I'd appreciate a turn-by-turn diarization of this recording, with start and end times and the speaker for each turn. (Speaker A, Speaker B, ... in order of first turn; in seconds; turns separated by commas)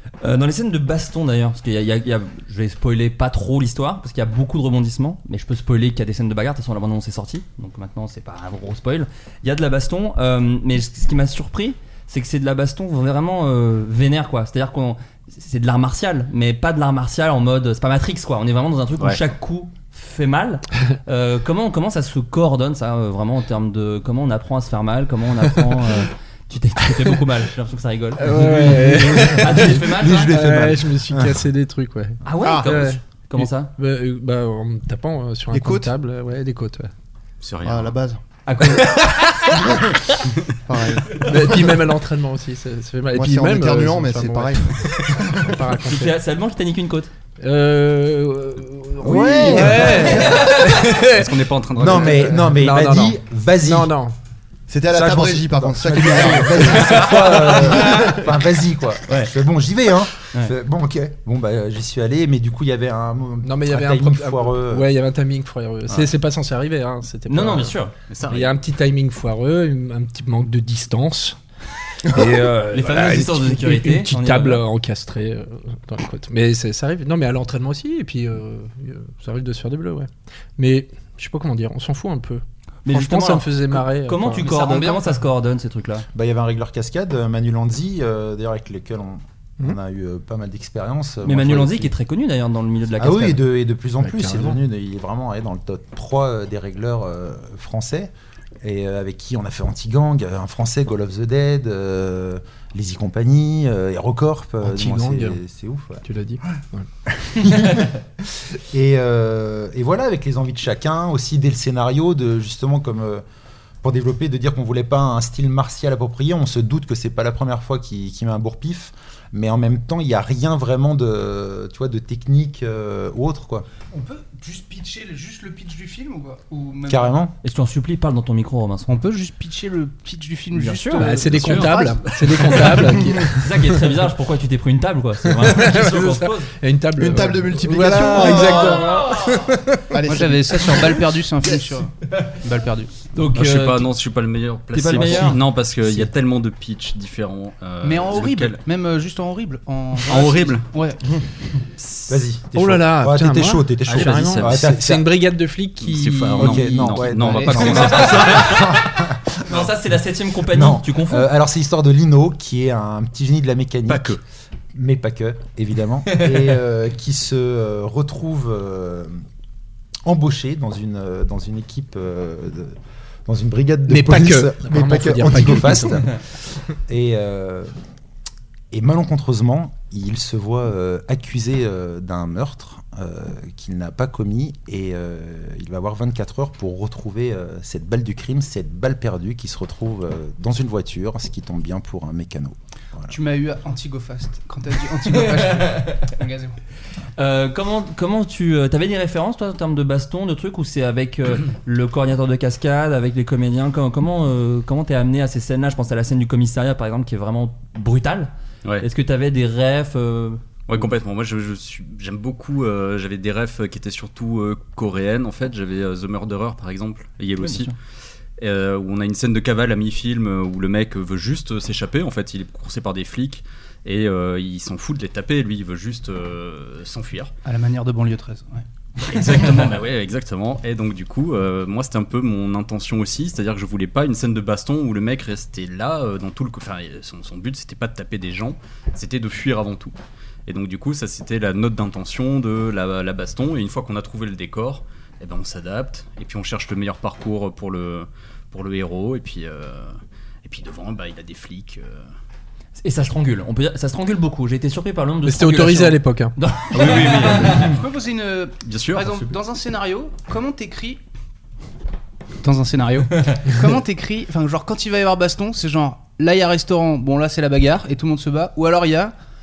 Speaker A: 0.2-30.4, Speaker B: 28.2-36.9, Speaker C: 29.2-31.4, Speaker A: 32.2-33.7, Speaker D: 35.5-35.9, Speaker E: 37.4-38.0, Speaker D: 37.6-38.8, Speaker A: 38.5-39.1, Speaker B: 38.7-39.3, Speaker D: 39.6-40.0, Speaker D: 40.7-41.8, Speaker B: 41.1-46.2, Speaker D: 43.1-45.5, Speaker A: 45.9-47.1, Speaker B: 47.4-54.1, Speaker D: 49.0-50.1, Speaker C: 49.4-50.0, Speaker A: 50.1-50.5, Speaker E: 51.1-52.4, Speaker C: 51.8-53.9, Speaker D: 54.7-58.2, Speaker C: 54.9-64.9, Speaker A: 57.0-57.9, Speaker A: 59.1-59.3, Speaker B: 63.4-67.8, Speaker A: 67.3-67.9, Speaker E: 68.1-68.6, Speaker B: 68.3-71.4, Speaker B: 72.1-84.6, Speaker A: 72.1-74.6, Speaker A: 82.8-86.1, Speaker F: 84.5-85.1, Speaker C: 86.1-91.9, Speaker A: 91.2-93.4, Speaker C: 93.0-106.0, Speaker B: 94.0-94.6, Speaker B: 104.6-105.4, Speaker B: 106.0-106.9, Speaker C: 107.2-113.2, Speaker C: 113.8-123.7, Speaker F: 123.9-127.2, Speaker C: 126.9-127.3, Speaker A: 127.4-128.9, Speaker F: 128.9-132.0, Speaker A: 130.5-131.1, Speaker B: 130.9-133.8, Speaker E: 131.2-132.8, Speaker A: 133.4-136.5, Speaker B: 135.3-139.5, Speaker D: 137.0-139.0, Speaker A: 138.2-139.4, Speaker D: 139.9-141.8, Speaker F: 140.0-141.9, Speaker F: 142.4-142.9, Speaker A: 143.1-143.9, Speaker E: 143.3-148.6, Speaker A: 144.7-146.1, Speaker F: 147.8-151.0, Speaker E: 150.1-150.7, Speaker E: 151.8-152.2, Speaker C: 152.1-155.1, Speaker B: 152.6-158.3, Speaker E: 153.9-154.7, Speaker E: 155.8-158.6, Speaker C: 156.4-159.7, Speaker A: 157.8-158.8, Speaker A: 159.4-161.3, Speaker C: 160.5-164.2, Speaker E: 163.9-164.2, Speaker C: 164.7-169.2, Speaker C: 170.1-172.8, Speaker C: 173.3-176.2, Speaker B: 173.9-176.1, Speaker C: 176.7-177.7, Speaker C: 178.7-193.1, Speaker F: 193.1-196.6, Speaker A: 195.1-195.8, Speaker A: 197.2-210.4, Speaker E: 210.7-217.7, Speaker A: 217.4-217.7, Speaker E: 218.4-227.3, Speaker F: 227.4-229.7, Speaker E: 229.0-239.9, Speaker E: 240.5-252.1, Speaker A: 252.8-257.7, Speaker B: 255.2-256.3, Speaker E: 256.7-257.8, Speaker F: 257.6-261.0, Speaker E: 258.6-259.3, Speaker F: 262.4-269.1